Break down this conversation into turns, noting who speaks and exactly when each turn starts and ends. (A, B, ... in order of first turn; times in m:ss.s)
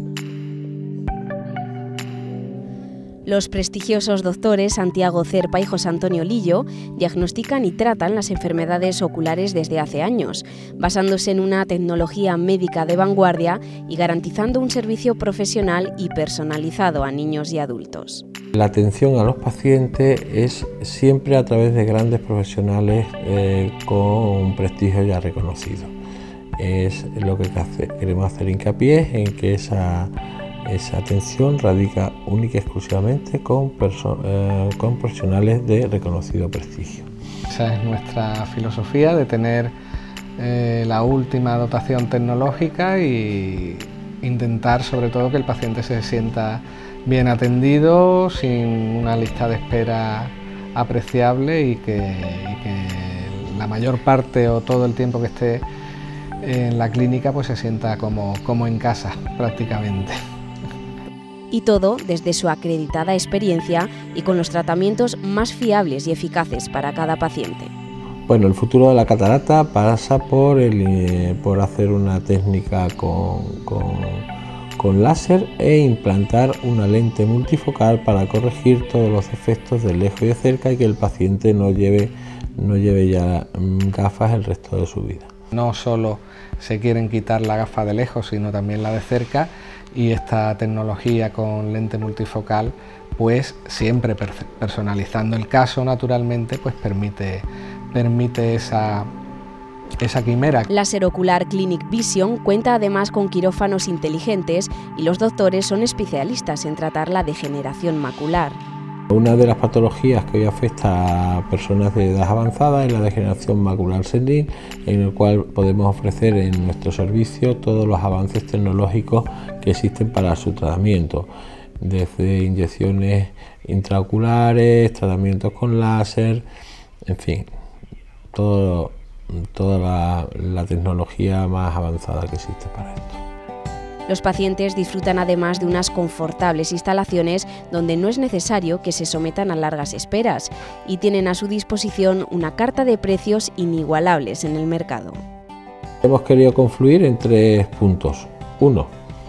0:03.2-0:18.2 A
0:18.5-0:26.0 B
0:26.6-0:30.1 B
0:30.6-0:37.1 B
0:37.5-0:39.7 C
0:40.4-0:55.6 C
0:56.4-1:00.2 C
1:01.5-1:07.7 A
1:08.3-1:25.3 B
1:25.5-1:39.1 C
1:40.0-1:40.7 C
1:40.7-1:48.6 A
1:49.1-2:01.3 B
2:01.8-2:06.4 B
2:07.1-2:07.5 B
2:08.3-2:13.2 B
2:14.1-2:25.2 A
2:26.0-2:28.9 B